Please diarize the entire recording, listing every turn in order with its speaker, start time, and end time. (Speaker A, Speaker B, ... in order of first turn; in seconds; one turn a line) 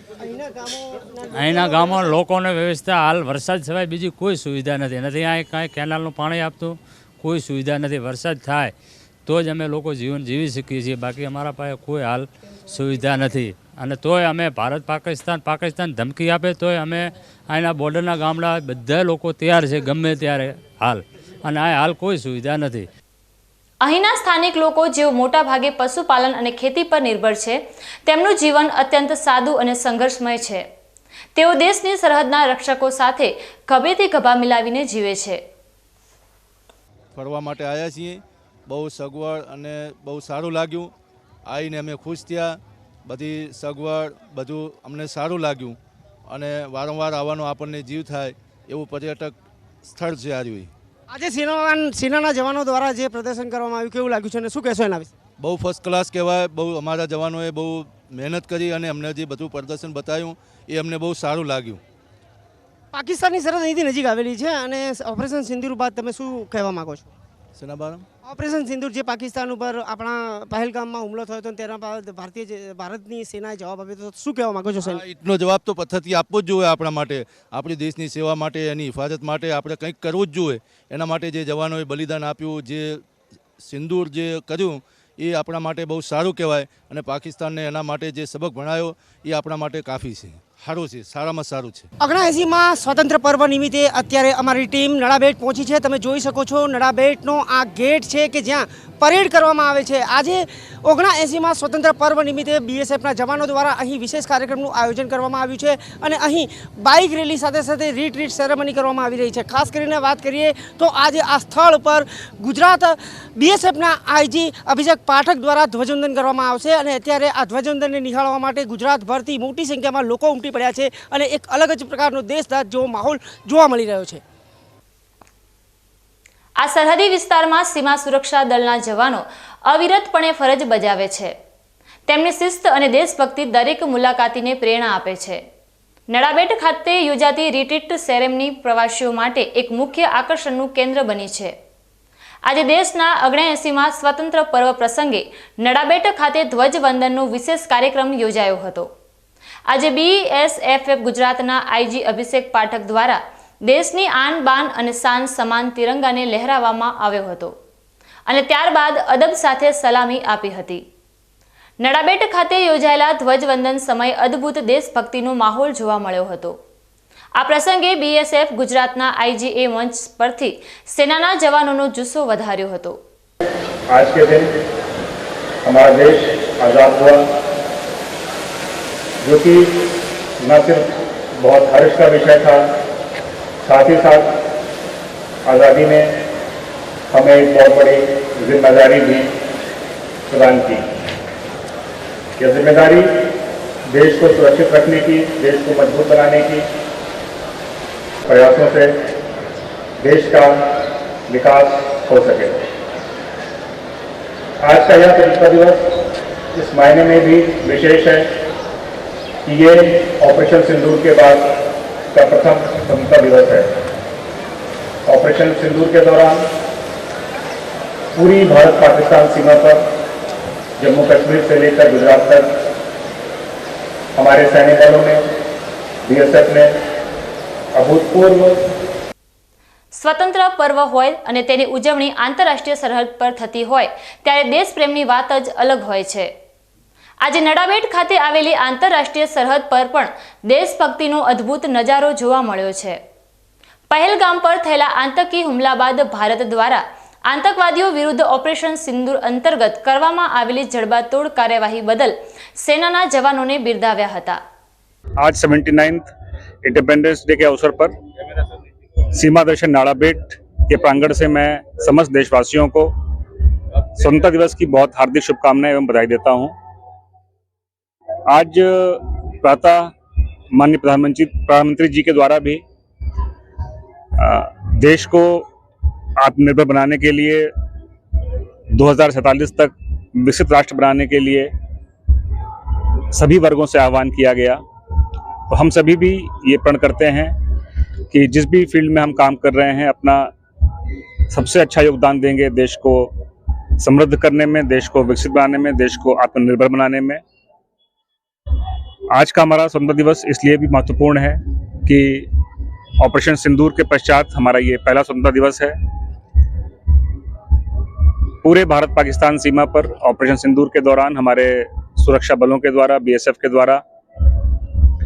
Speaker A: 0.2-2.1
Speaker B: 1.3-8.7
Speaker B: 9.2-22.9
Speaker C: 23.8-30.6
Speaker C: 31.3-35.4
Speaker D: 37.1-38.2
Speaker D: 38.7-40.9
Speaker D: 41.5-42.5
Speaker D: 43.1-45.8
Speaker D: 46.3-49.3
Speaker D: 49.9-50.7
Speaker A: 51.1-55.1
Speaker D: 55.4-61.8
Speaker A: 62.9-67.1
Speaker D: 67.6-68.0
Speaker A: 68.2-75.0
Speaker D: 74.8-82.8
Speaker D: 83.7-91.8
Speaker A: 92.0-124.2
Speaker C: 126.6-131.3
Speaker C: 132.1-135.4
Speaker C: 136.1-141.5
Speaker C: 142.4-148.9
Speaker C: 149.7-157.5
Speaker C: 158.3-160.8
Speaker C: 161.8-166.6
Speaker C: 167.3-173.0
Speaker E: 173.9-174.5
Speaker E: 175.7-177.2
Speaker E: 179.2-179.7
Speaker E: 180.4-180.8
Speaker E: 181.4-182.6
Speaker E: 183.6-184.3
Speaker E: 185.5-186.1
Speaker E: 187.1-189.2
Speaker E: 190.3-190.8
Speaker E: 192.4-193.1
Speaker E: 193.9-196.6
Speaker E: 198.3-198.9
Speaker E: 200.0-200.6
Speaker E: 201.3-202.6
Speaker E: 204.6-205.8
Speaker E: 206.5-208.3
Speaker E: 209.4-211.5
Speaker E: 212.1-213.7
Speaker E: 215.1-216.4
Speaker E: 218.1-219.8
Speaker E: 220.8-222.5
Speaker E: 224.2-225.2
Speaker E: 226.1-226.7
Speaker E: 227.8-228.5
Speaker C: 229.9-236.3
Speaker C: 237.2-243.0
Speaker C: 243.9-254.4
Speaker E: 255.2-256.1
Speaker E: 256.6-257.9
Speaker E: 259.1-262.9
Speaker E: 264.0-266.5
Speaker E: 268.3-269.9
Speaker E: 270.6-272.6
Speaker E: 274.2-275.4
Speaker E: 276.2-277.5
Speaker E: 278.8-281.5
Speaker E: 283.1-284.6
Speaker E: 285.5-287.4
Speaker E: 288.1-290.3
Speaker E: 291.3-293.1
Speaker E: 293.8-297.2
Speaker E: 299.1-302.3
Speaker E: 303.0-305.7
Speaker E: 308.4-313.8